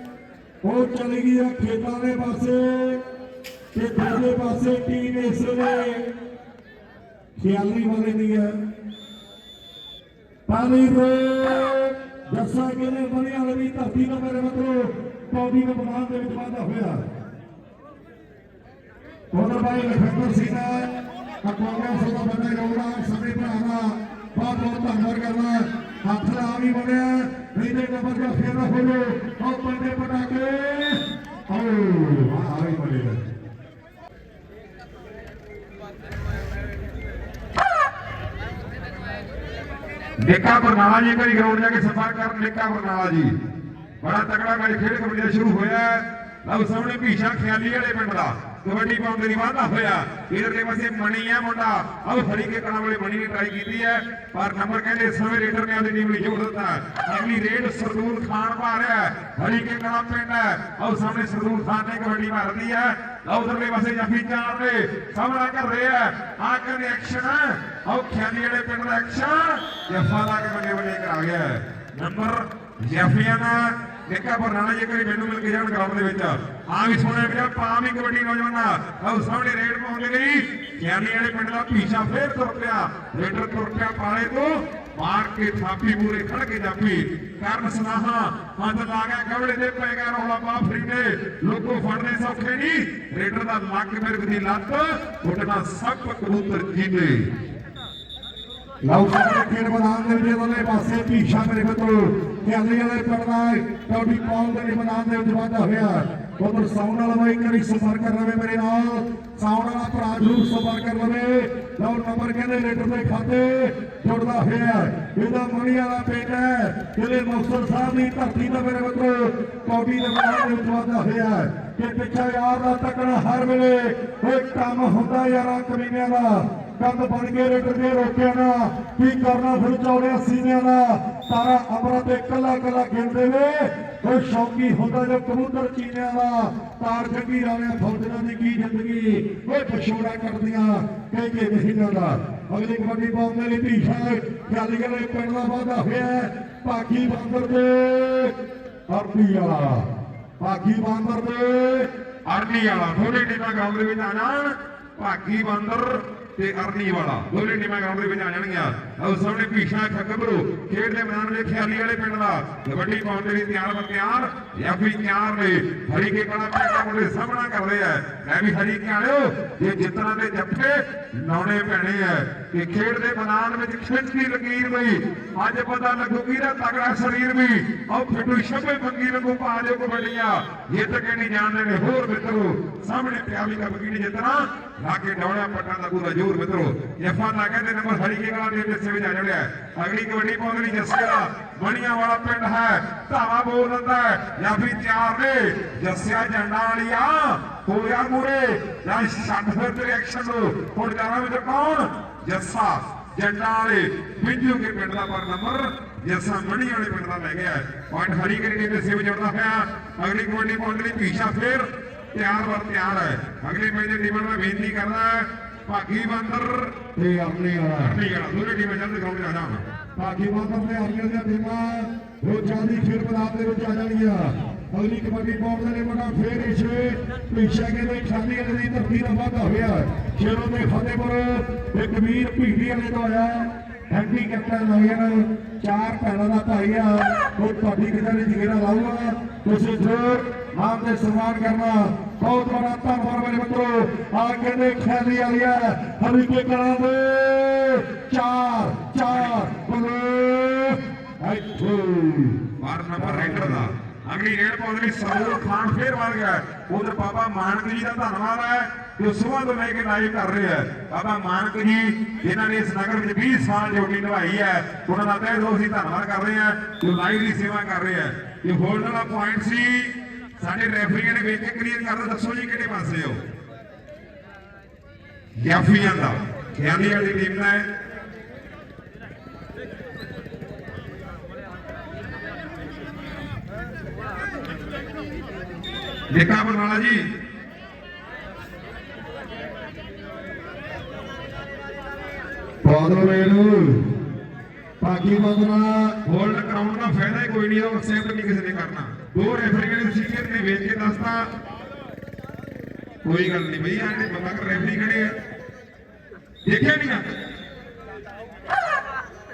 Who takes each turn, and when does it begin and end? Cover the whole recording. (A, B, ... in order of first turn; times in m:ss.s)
0:00.6-0:03.0 A
0:03.8-0:06.0 A
0:07.4-0:08.5 A
0:10.5-0:17.0 A
0:19.3-0:20.9 A
0:21.4-0:33.2 A
0:40.2-0:43.3 B
0:44.0-1:37.3 B
1:38.8-2:28.3 A
2:28.9-2:29.8 A
2:30.4-2:31.9 A
2:32.2-3:36.7 B
3:37.0-3:38.0 A
3:37.8-3:39.6 B
3:40.0-4:12.4 A
4:09.1-4:09.4 B
4:12.6-4:33.2 B
4:13.0-4:13.7 A
4:35.4-4:37.6 B
4:46.1-4:47.0 B
4:52.6-4:53.8 A
4:54.8-4:56.0 A
4:56.0-5:01.2 B
5:03.0-5:05.1 B
5:06.4-5:07.0 B